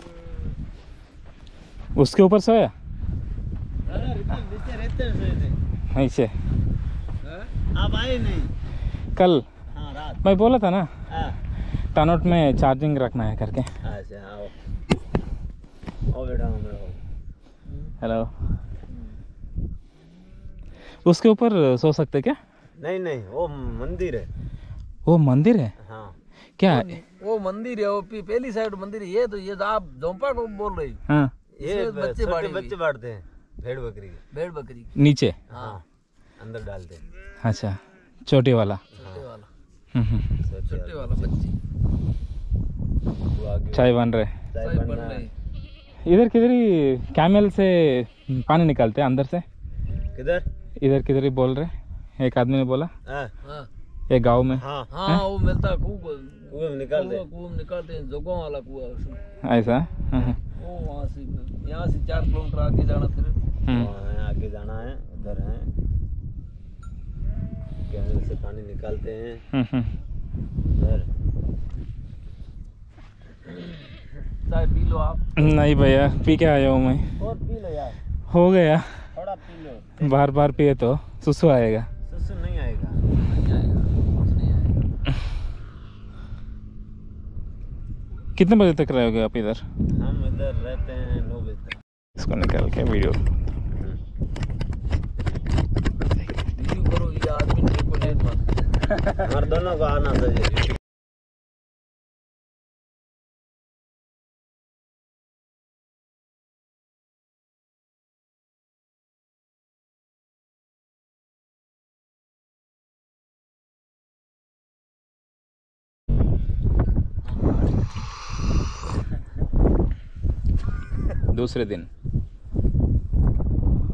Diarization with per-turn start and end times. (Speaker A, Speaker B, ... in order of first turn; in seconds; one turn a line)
Speaker A: 1.9-2.7
Speaker B: 3.9-5.6
Speaker A: 6.0-6.3
Speaker C: 7.2-7.5
Speaker B: 7.7-8.5
Speaker A: 9.2-9.4
Speaker B: 9.7-10.2
Speaker A: 10.2-10.9
Speaker B: 11.1-11.4
Speaker A: 11.9-13.7
Speaker B: 13.8-14.5
Speaker B: 16.1-17.0
Speaker C: 17.7-17.9
Speaker A: 18.0-18.3
Speaker A: 21.1-22.4
Speaker B: 22.8-24.3
Speaker A: 25.1-25.7
Speaker B: 25.8-26.1
Speaker A: 26.6-26.9
Speaker C: 26.7-31.0
Speaker B: 31.6-34.2
Speaker C: 31.6-32.8
Speaker C: 34.3-34.9
Speaker A: 35.0-35.4
Speaker C: 35.5-35.8
Speaker B: 35.5-35.8
Speaker B: 36.4-37.0
Speaker A: 37.4-38.8
Speaker C: 38.9-39.5
Speaker A: 40.0-40.2
Speaker B: 40.5-41.3
Speaker C: 40.7-41.5
Speaker B: 43.3-44.0
Speaker A: 43.7-44.3
Speaker B: 44.5-45.2
Speaker C: 44.6-45.3
Speaker A: 46.1-49.4
Speaker B: 50.1-50.5
Speaker A: 50.8-52.9
Speaker B: 53.1-53.3
Speaker C: 53.4-53.7
Speaker A: 54.1-55.2
Speaker B: 54.5-54.9
Speaker C: 54.9-59.2
Speaker B: 56.5-57.2
Speaker A: 59.5-60.4
Speaker C: 60.6-63.4
Speaker B: 63.7-65.7
Speaker B: 67.9-69.4
Speaker A: 69.5-69.9
Speaker B: 70.7-71.1
Speaker C: 74.5-75.4
Speaker A: 75.4-77.0
Speaker B: 77.2-78.0
Speaker A: 78.3-78.9
Speaker B: 79.1-80.2
Speaker A: 80.0-81.9
Speaker B: 82.1-83.0
Speaker C: 83.1-84.9
Speaker A: 88.4-89.6
Speaker B: 89.9-91.8
Speaker A: 92.2-93.2
Speaker C: 96.5-98.5
Speaker B: 99.2-100.6
Speaker C: 117.2-117.9
Speaker A: 121.3-121.9